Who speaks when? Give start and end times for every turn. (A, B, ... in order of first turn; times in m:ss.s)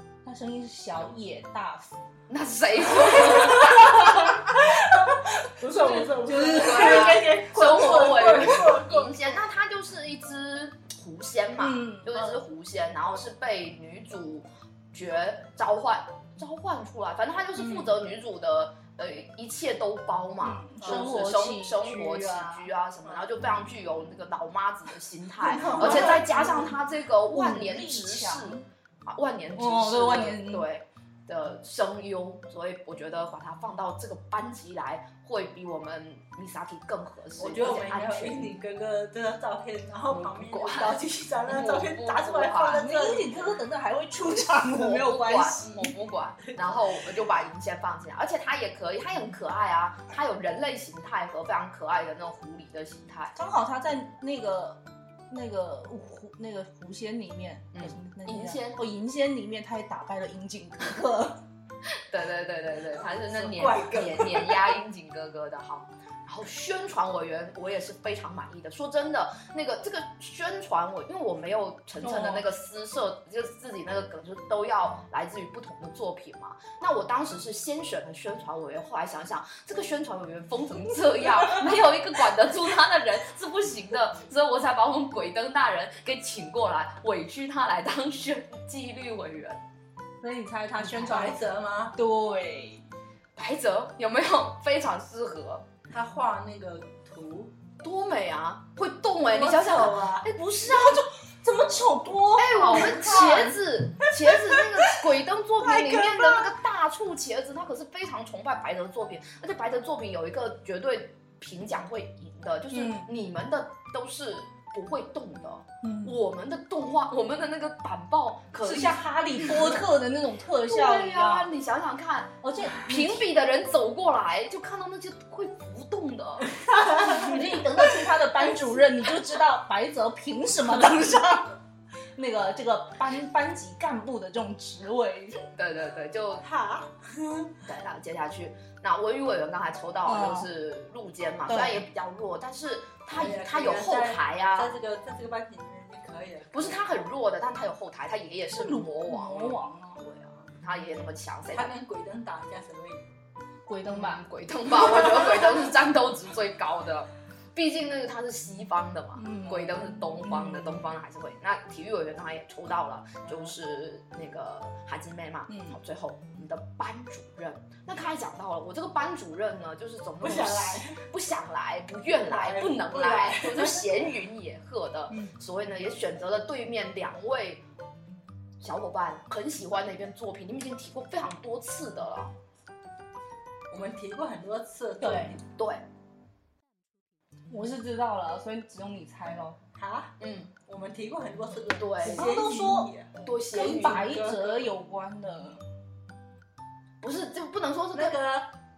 0:00.2-0:02.0 A
0:02.3-0:04.4 B
0:03.2-0:08.5 A
0:04.9-0:09.2 C
0:06.5-0:38.5 B
0:11.6-0:12.4 A
0:17.6-0:17.9 A
0:20.4-0:22.7 A
0:20.8-0:21.2 C
0:25.4-0:26.8 C
0:25.8-0:26.2 A
0:27.3-0:28.6 A
0:29.6-0:30.6 A
0:37.4-0:43.4 C
0:40.1-0:42.8 B
0:42.6-0:45.9 A
0:44.5-0:53.3 B
0:53.4-1:01.4 A
0:57.7-0:58.8 B
1:02.1-1:29.6 B
1:03.0-1:04.7 C
1:12.0-1:12.4 A
1:30.2-1:32.8 A
1:30.8-1:32.0 C
1:33.4-1:35.6 B
1:35.9-1:37.5 C
1:37.8-1:41.0 B
1:39.2-1:40.3 C
1:40.6-1:43.6 A
1:42.4-1:59.8 B
1:45.6-1:46.4 A
1:52.7-1:53.1 A
1:55.8-1:56.2 A
1:58.6-2:01.5 A
2:00.6-2:06.6 B
2:02.4-2:03.3 A
2:06.7-2:07.3 C
2:07.0-2:11.6 A
2:12.2-2:15.4 A
2:15.6-2:16.4 B
2:16.4-2:17.5 C
2:17.6-2:24.7 B
2:20.0-2:20.5 A
2:21.5-2:21.9 A
2:23.1-2:26.8 C
2:26.5-2:31.7 B
2:28.5-2:30.0 A
2:31.5-2:33.1 C
2:33.6-2:34.2 A
2:33.9-2:57.6 B
2:39.1-2:40.8 A
2:43.2-2:43.5 C
2:45.5-2:45.8 A
2:50.2-2:51.0 C
2:52.2-2:54.1 C
2:58.6-3:02.3 B
3:03.7-3:05.4 C
3:05.0-3:05.4 A
3:05.6-3:05.8 B
3:07.5-3:09.6 A
3:09.8-3:14.7 C
3:10.2-3:10.5 B
3:11.8-3:12.2 B
3:12.0-3:12.9 A
3:13.2-3:14.0 B
3:13.5-3:15.6 A
3:17.0-3:18.2 B
3:17.9-3:18.5 C